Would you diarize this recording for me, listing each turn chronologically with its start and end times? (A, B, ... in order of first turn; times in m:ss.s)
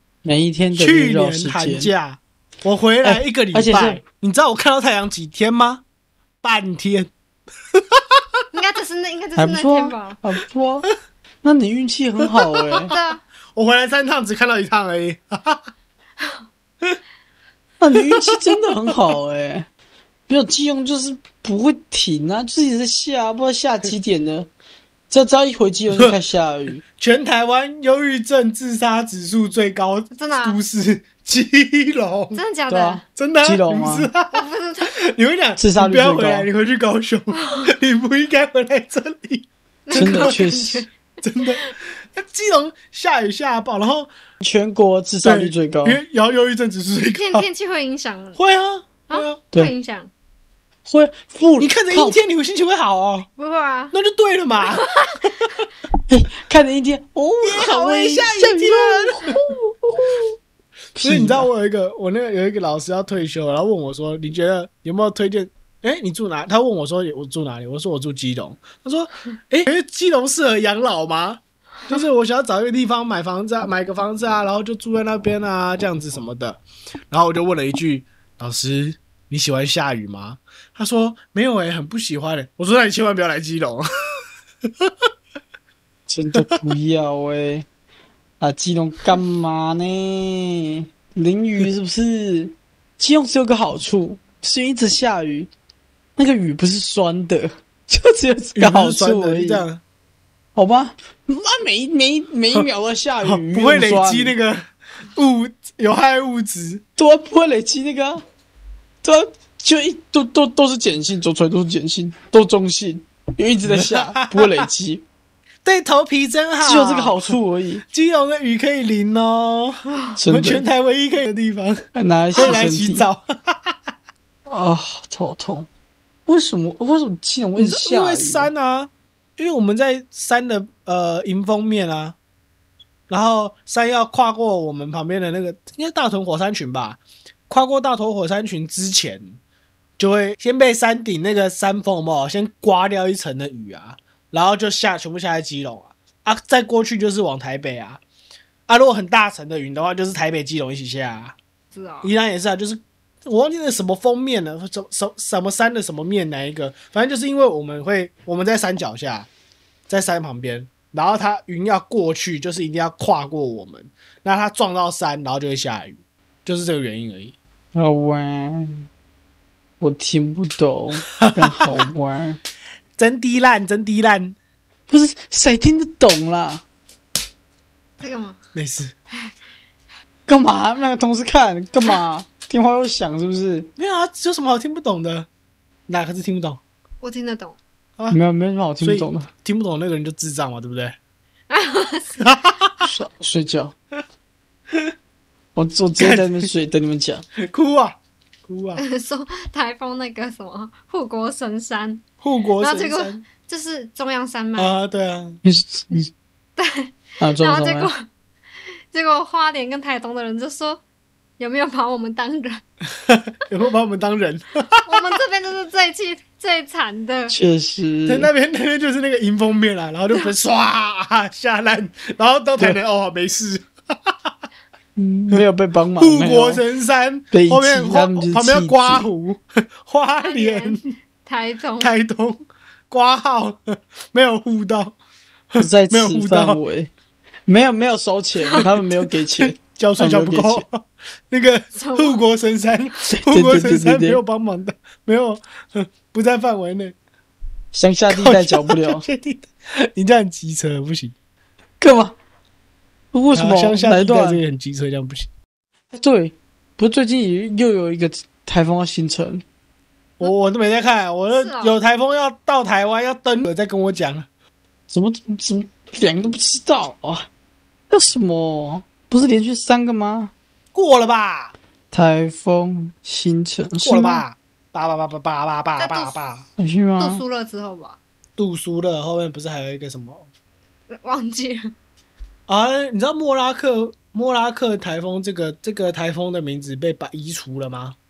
0:00.2-0:01.9 A
0:00.7-0:05.8 B
0:03.0-0:04.0 A
0:06.4-0:07.1 B
0:07.7-0:08.2 B
0:08.5-0:10.2 C
0:09.4-0:10.9 A
0:11.4-0:12.9 A
0:12.2-0:13.0 B
0:12.9-0:13.2 C
0:13.5-0:15.6 B
0:17.8-0:19.7 A
0:18.0-0:18.9 B
0:20.3-0:24.5 A
0:25.1-0:26.8 A
0:27.0-0:32.4 B
0:30.1-0:30.6 C
0:32.3-0:33.0 C
0:32.7-0:34.1 A
0:33.1-0:34.4 B
0:34.3-0:35.0 C
0:34.9-0:40.4 B
0:35.6-0:36.5 A
0:37.4-0:37.7 C
0:39.8-0:40.9 C
0:39.9-0:40.8 A
0:41.2-0:44.1 B
0:44.4-0:46.0 A
0:45.2-0:47.4 B
0:47.1-0:48.4 C
0:48.4-0:49.4 B
0:49.1-0:50.1 C
0:50.8-0:52.2 A
0:51.6-0:53.3 B
0:53.4-0:53.9 C
0:53.9-0:55.5 B
0:54.7-0:55.1 C
0:56.1-1:00.4 A
0:57.4-0:59.3 B
1:00.9-1:01.5 A
1:01.0-1:23.8 B
1:26.1-1:27.6 A
1:28.4-1:35.5 A
1:36.2-1:39.6 A
1:38.6-1:39.8 B
1:40.5-1:44.3 A
1:43.2-1:46.8 B
1:47.0-1:48.2 A
1:49.0-1:55.0 A
1:53.6-1:54.6 B
1:55.6-1:57.4 B
1:56.6-1:57.8 A
1:57.9-2:03.8 B
2:00.2-2:00.6 A
2:01.9-2:03.0 A
2:02.4-2:02.6 C
2:04.5-2:05.7 A
2:06.3-2:08.5 A
2:07.6-2:12.2 B
2:13.1-2:19.4 B
2:20.0-2:28.0 B
2:28.7-2:31.4 B
2:31.7-2:32.1 C
2:32.0-2:39.3 B
2:39.9-2:47.4 B
2:47.7-2:48.9 A
2:49.8-2:52.4 A
2:51.2-2:51.8 B
2:53.0-2:54.4 B
2:54.9-2:56.6 A
2:58.0-2:58.4 C
2:58.5-2:58.9 B
3:00.3-3:03.7 A
3:03.8-3:05.3 B
3:05.9-3:06.6 B
3:07.0-3:07.6 C
3:08.1-3:09.3 A
3:08.8-3:11.0 B
3:11.5-3:12.2 C
3:12.2-3:12.8 B
3:12.8-3:13.7 A
3:15.5-3:17.2 A
3:16.0-3:16.5 B
3:17.4-3:18.8 B
3:18.8-3:22.0 C
3:22.2-3:23.2 B
3:22.6-3:24.7 C
3:24.6-3:25.4 B
3:25.4-3:26.1 A
3:26.6-3:28.0 C
3:27.2-3:27.9 A
3:28.9-3:30.8 C
3:31.4-3:32.6 C
3:33.0-3:35.1 B
3:34.8-3:37.4 C
3:37.3-3:38.3 A
3:38.0-3:44.3 B
3:45.0-3:46.6 A
3:46.0-3:50.8 B
3:47.3-3:49.1 A
3:50.2-3:51.9 C
3:51.8-3:55.0 B
3:55.5-3:56.6 B
3:55.6-3:56.9 A
3:57.4-4:00.6 A
3:59.4-4:06.9 B
4:01.8-4:02.2 C
4:03.1-4:04.2 A
4:07.7-4:09.0 A
4:08.1-4:11.1 B
4:11.8-4:12.1 A
4:13.1-4:14.4 A
4:13.3-4:15.3 B
4:15.9-4:19.4 A
4:20.2-4:24.3 B
4:21.3-4:21.8 C
4:24.9-4:27.3 A
4:27.9-4:30.3 A
4:30.7-4:31.5 B
4:31.9-4:34.2 A
4:33.8-4:36.4 B
4:35.8-4:36.2 C
4:36.6-4:37.2 A
4:37.0-4:38.0 C
4:38.4-4:40.3 B
4:40.9-4:41.7 C
4:42.5-4:48.0 B